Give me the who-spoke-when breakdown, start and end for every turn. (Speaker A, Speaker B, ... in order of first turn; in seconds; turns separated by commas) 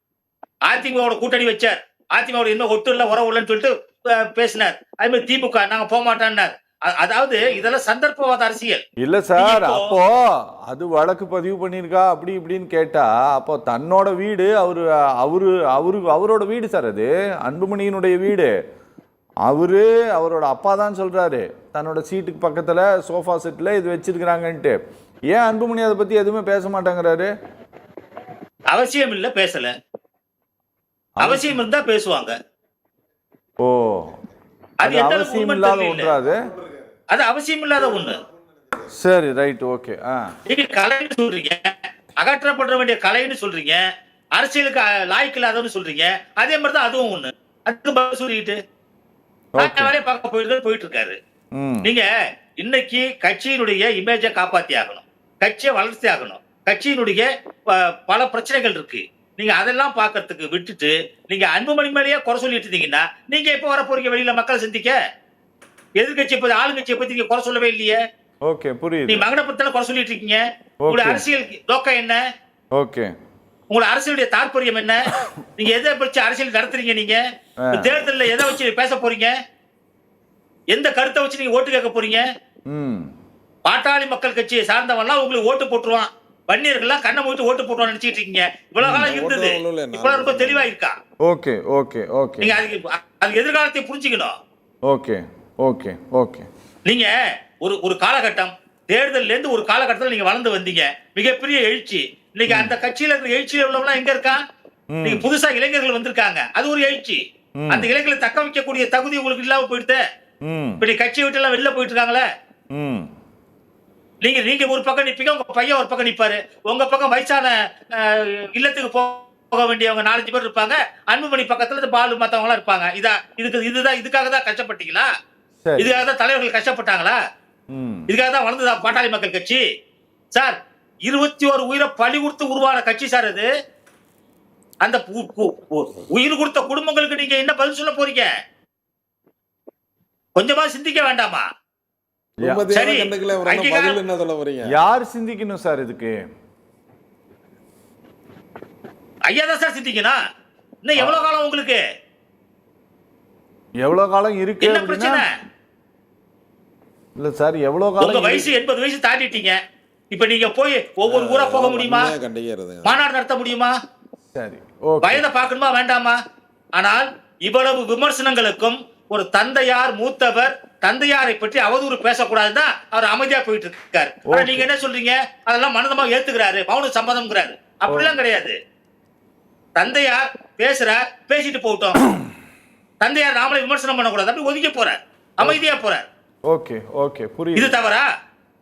Speaker A: 0.7-8.8, Speaker B: 9.0-18.5, Speaker A: 9.4-9.9, Speaker B: 19.4-24.8, Speaker B: 25.3-27.3, Speaker A: 28.7-29.7, Speaker B: 31.2-31.5, Speaker A: 31.2-32.4, Speaker B: 33.6-34.1, Speaker A: 34.8-36.1, Speaker B: 34.8-36.4, Speaker A: 37.1-38.2, Speaker B: 38.8-40.2, Speaker A: 40.5-43.8, Speaker A: 44.4-48.6, Speaker B: 49.6-50.0, Speaker A: 49.6-51.2, Speaker B: 51.6-51.9, Speaker A: 52.6-65.0, Speaker A: 66.0-68.0, Speaker B: 68.5-69.3, Speaker A: 69.1-72.2, Speaker B: 70.8-71.2, Speaker B: 72.8-73.1, Speaker A: 73.7-75.0, Speaker A: 75.6-77.2, Speaker B: 77.6-78.0, Speaker A: 77.7-79.3, Speaker A: 80.7-82.2, Speaker B: 82.7-83.1, Speaker A: 83.7-91.0, Speaker B: 88.8-89.1, Speaker C: 88.9-90.7, Speaker B: 91.3-92.6, Speaker A: 92.4-94.3, Speaker B: 94.9-96.5, Speaker A: 96.9-97.1, Speaker A: 97.6-104.4, Speaker B: 102.5-102.8, Speaker B: 104.9-105.3, Speaker A: 105.0-107.2, Speaker B: 107.6-107.9, Speaker A: 107.7-110.0, Speaker B: 110.5-110.8, Speaker A: 110.8-112.2, Speaker B: 112.7-113.1, Speaker A: 114.2-125.1, Speaker B: 125.6-126.0, Speaker A: 125.8-127.2, Speaker B: 127.7-128.1, Speaker A: 128.1-129.6, Speaker A: 130.3-133.5, Speaker A: 134.8-138.3, Speaker A: 140.3-141.5, Speaker C: 142.4-144.8, Speaker B: 142.4-142.7, Speaker A: 142.7-144.0, Speaker B: 144.7-146.2, Speaker A: 149.3-150.2, Speaker A: 150.8-151.8, Speaker B: 153.8-155.2, Speaker A: 154.6-155.3, Speaker B: 157.2-158.5, Speaker A: 158.0-159.6, Speaker A: 160.1-162.2, Speaker C: 161.1-163.0, Speaker A: 162.8-163.7, Speaker B: 164.3-165.2, Speaker A: 165.0-166.2, Speaker A: 166.8-178.6, Speaker B: 174.3-174.7, Speaker B: 177.9-178.1, Speaker A: 179.8-182.0, Speaker A: 183.0-186.1, Speaker B: 186.5-187.8, Speaker A: 187.6-188.1